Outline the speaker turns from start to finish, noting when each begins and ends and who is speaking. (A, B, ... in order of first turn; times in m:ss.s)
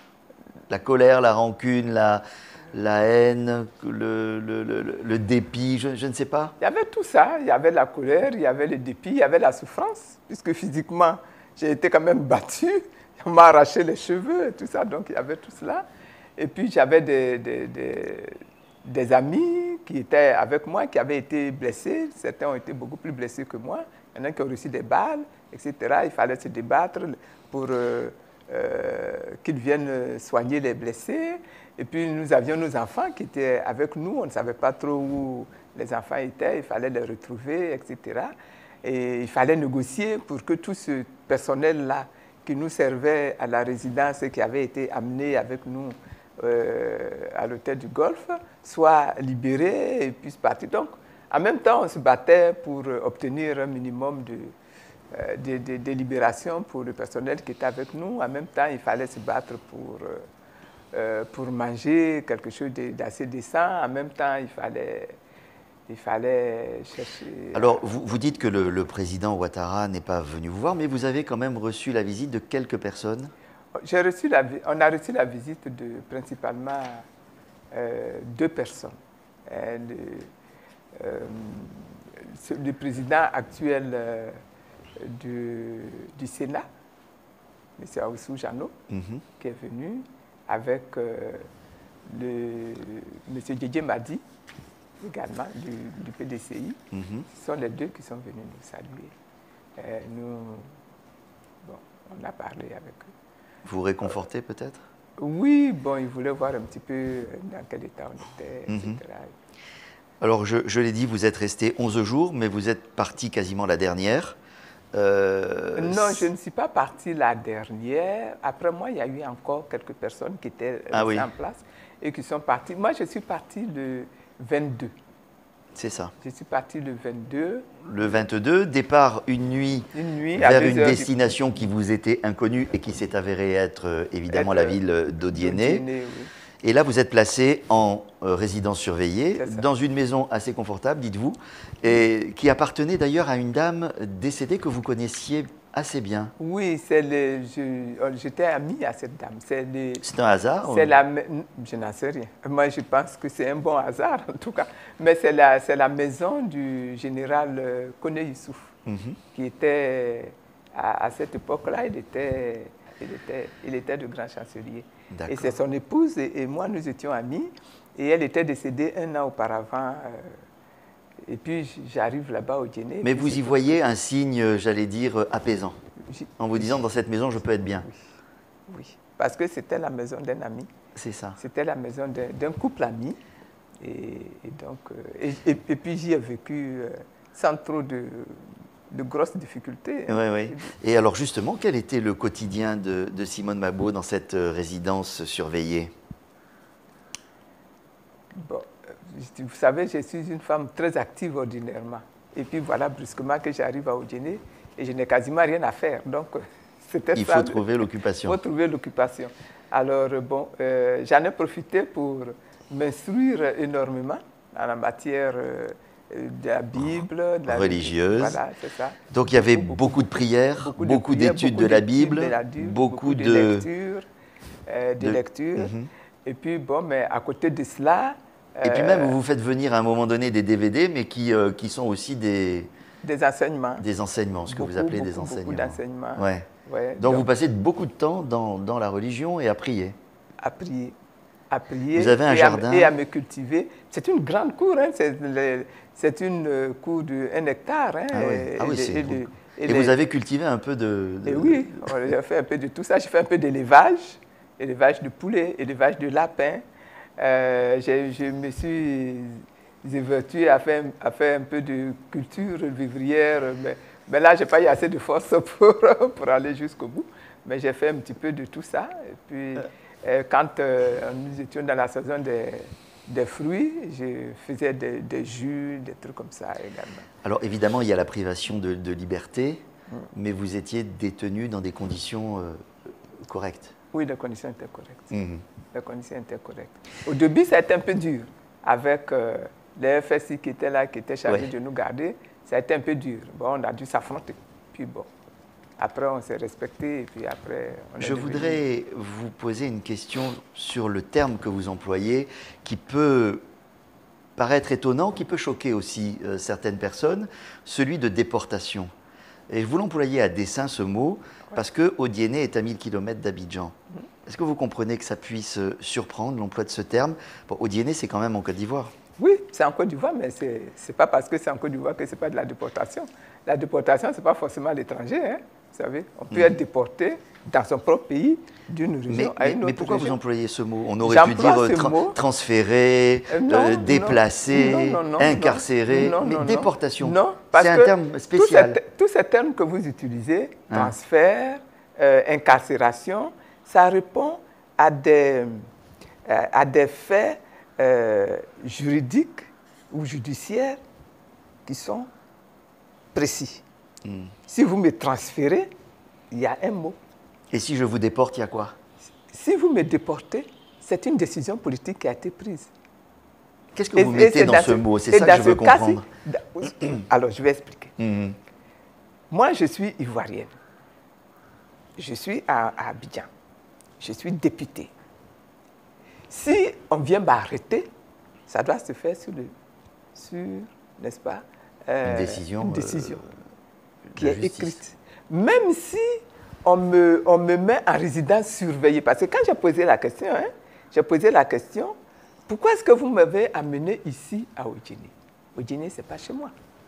0:00.7-0:06.6 A
0:06.6-0:54.6 B
0:55.1-1:00.3 B
1:00.9-1:05.2 B
1:05.9-1:07.8 B
1:07.5-1:13.3 A
1:13.8-1:17.1 B
1:17.7-1:20.3 B
1:20.9-1:24.4 B
1:25.0-1:26.7 B
1:27.8-1:28.8 B
1:28.9-1:29.2 A
1:29.4-1:31.5 B
1:32.1-1:34.2 B
1:35.0-1:39.1 B
1:36.9-1:37.3 A
1:39.8-1:40.7 B
1:41.6-1:43.1 B
1:43.6-1:44.8 A
1:45.2-1:49.4 B
1:48.7-1:49.0 A
1:50.2-1:54.4 A
1:54.9-1:56.3 A
1:55.8-2:04.9 B
2:00.9-2:01.3 A
2:05.8-2:06.1 A
2:06.2-2:07.7 B
2:07.8-2:15.8 A
2:09.9-2:11.3 B
2:14.3-2:16.3 B
2:16.6-2:26.3 A
2:19.4-2:19.7 B
2:26.4-2:30.0 B
2:30.0-2:31.0 A
2:30.6-2:38.7 B
2:38.9-2:39.2 A
2:39.3-2:50.4 B
2:45.1-2:45.6 A
2:51.2-2:53.8 B
2:53.0-2:55.8 A
2:56.1-2:56.8 B
2:56.4-2:57.9 A
2:57.8-2:58.1 B
2:58.7-3:00.7 B
3:01.0-3:01.4 A
3:01.4-3:03.2 B
3:03.8-3:10.7 B
3:10.1-3:15.9 A
3:18.3-3:27.6 B
3:27.2-3:28.4 A
3:28.2-3:44.1 B
3:36.8-3:38.4 A
3:39.1-3:43.7 A
3:44.7-3:45.7 B
3:45.0-3:45.9 A
3:46.2-3:49.2 B
3:48.6-3:52.7 A
3:53.0-3:53.9 B
3:53.8-4:00.0 A
3:54.5-3:57.3 B
4:00.4-4:01.0 B
4:01.5-4:09.9 B
4:01.9-4:02.9 A
4:08.1-4:11.9 A
4:11.3-4:16.6 B
4:17.2-4:37.1 B
4:37.2-4:42.7 A
4:43.2-4:43.7 A
4:43.9-4:45.1 B
4:45.1-4:45.4 A
4:45.7-4:55.1 B
4:55.8-4:58.6 B
4:58.0-5:03.4 A
5:04.4-5:08.9 A
5:09.5-5:13.8 A
5:14.3-5:18.9 A
5:19.2-5:30.2 B
5:29.1-5:38.8 A
5:31.0-5:32.2 B
5:33.3-5:45.7 B
5:40.7-5:41.0 A
5:46.3-5:50.8 B
5:51.7-5:52.1 B
5:53.1-5:53.6 B
5:54.0-5:54.3 A
5:54.5-5:55.7 B
5:56.3-5:57.0 B
5:57.5-5:58.8 A
5:59.3-6:02.7 B
6:03.8-6:06.0 A
6:03.9-6:08.0 B
6:08.0-6:08.4 A
6:09.3-6:10.6 B
6:12.0-6:13.3 B
6:14.0-6:14.9 B
6:16.3-6:17.9 B
6:18.5-6:19.5 B
6:20.2-6:23.2 B
6:22.0-6:23.3 A
6:24.1-6:24.8 A
6:24.2-6:32.0 B
6:32.5-6:36.5 B